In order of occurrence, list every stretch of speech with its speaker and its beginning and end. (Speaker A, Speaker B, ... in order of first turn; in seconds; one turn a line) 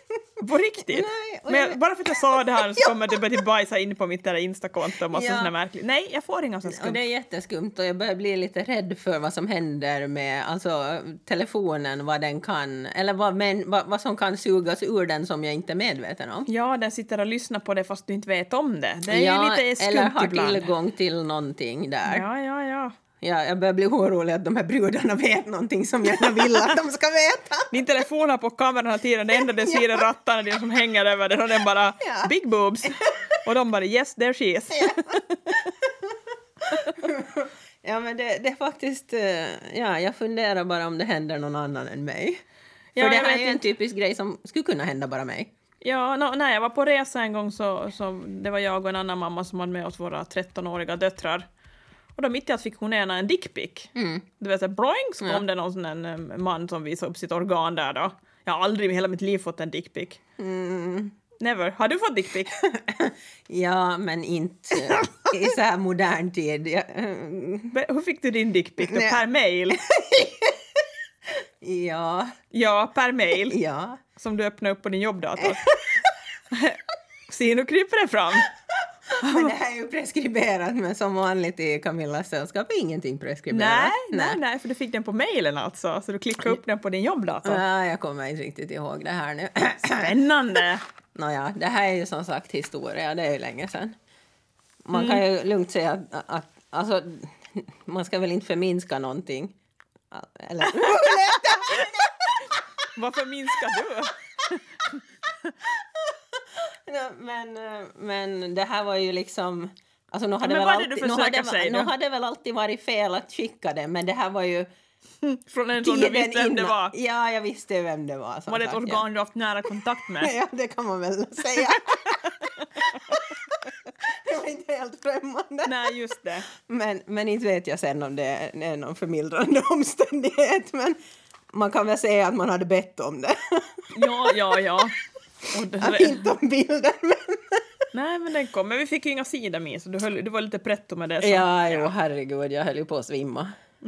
Speaker A: 0.4-7.0
Speaker B: 0.9-1.8
Speaker B: 2.3-3.2
Speaker B: 5.1-5.5
Speaker B: 6.7-16.5
Speaker A: 16.5-20.7
Speaker B: 19.1-22.3
Speaker A: 22.1-22.9
Speaker B: 23.2-27.7
Speaker A: 27.7-35.7
Speaker B: 29.5-30.1
Speaker B: 32.0-32.3
Speaker B: 32.9-33.3
Speaker B: 34.7-42.4
Speaker A: 36.7-37.0
Speaker A: 43.0-43.6
Speaker B: 43.0-45.5
Speaker A: 45.8-51.5
Speaker A: 52.2-60.2
Speaker B: 54.0-54.3
Speaker B: 60.4-61.1
Speaker A: 61.4-62.6
Speaker B: 62.6-67.8
Speaker A: 67.7-69.8
Speaker B: 68.8-69.2
Speaker B: 69.7-70.9
Speaker B: 71.6-72.3
Speaker A: 72.5-73.6
Speaker B: 73.5-74.0
Speaker A: 74.2-75.7
Speaker B: 75.4-76.1
Speaker A: 76.5-78.5
Speaker B: 79.1-84.4
Speaker A: 79.2-79.5
Speaker A: 83.5-87.6
Speaker B: 87.4-90.2
Speaker A: 89.9-90.8
Speaker B: 91.2-94.0
Speaker B: 94.8-99.5
Speaker A: 94.9-95.2
Speaker B: 100.1-102.5
Speaker A: 100.8-101.1
Speaker A: 102.9-105.5
Speaker B: 105.7-114.7
Speaker A: 110.4-111.9
Speaker A: 115.2-117.0
Speaker B: 115.8-119.0
Speaker A: 118.5-120.3
Speaker B: 120.2-125.9
Speaker A: 121.7-123.1
Speaker A: 125.7-126.5
Speaker B: 126.5-131.0
Speaker B: 131.5-134.4
Speaker A: 133.9-134.9
Speaker A: 135.5-136.3
Speaker B: 135.8-137.7
Speaker A: 137.9-141.9
Speaker B: 141.2-143.5